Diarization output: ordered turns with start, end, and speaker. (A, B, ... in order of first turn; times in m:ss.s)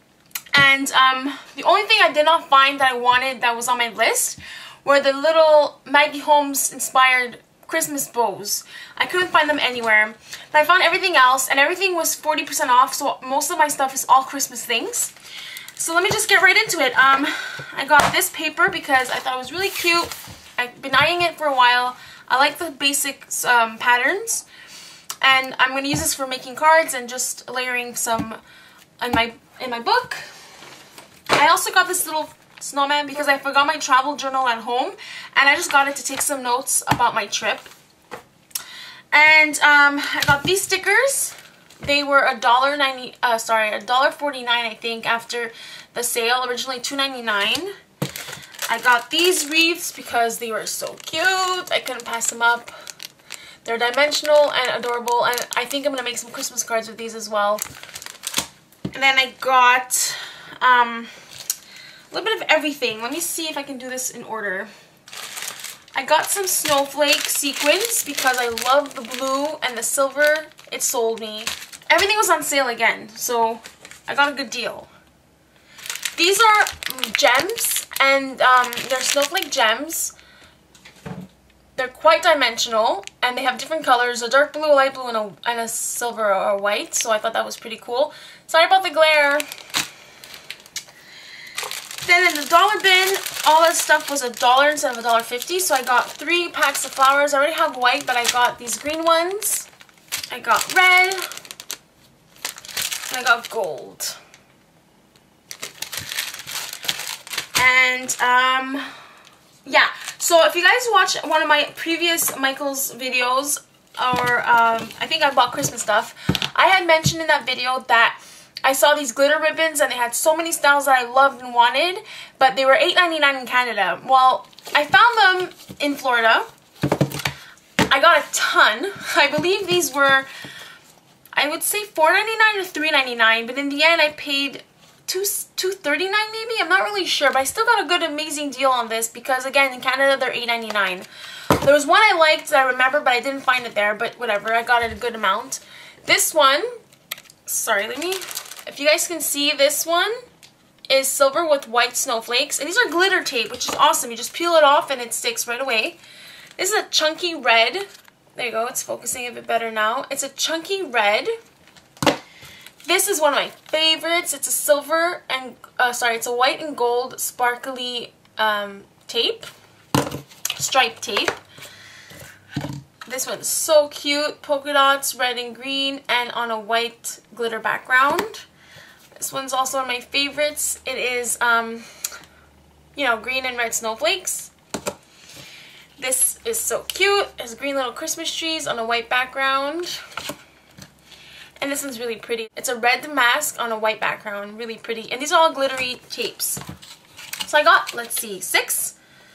0:00.5-0:15.1 A
0:15.8-0:24.4 A
0:25.2-0:28.4 A
0:29.0-0:30.3 A
0:31.3-0:37.7 A
0:39.1-0:47.7 A
0:48.7-0:52.7 A
0:53.6-0:57.6 A
0:58.9-1:01.1 A
1:02.1-1:04.7 A
1:05.9-1:14.9 A
1:16.2-1:20.1 A
1:21.8-1:29.4 A
1:32.0-1:39.7 A
1:40.3-1:41.3 A
1:43.1-1:44.2 A
1:47.5-1:49.0 A
1:49.6-2:06.5 A
2:07.9-2:10.3 A
2:11.3-2:26.7 A
2:27.4-2:30.2 A
2:30.9-2:36.0 A
2:36.6-2:41.3 A
2:42.8-2:49.5 A
2:50.6-2:51.4 A
2:53.0-2:58.4 A
2:59.2-3:01.9 A
3:02.9-3:04.5 A
3:06.0-3:10.0 A
3:11.6-3:16.6 A
3:17.4-3:18.9 A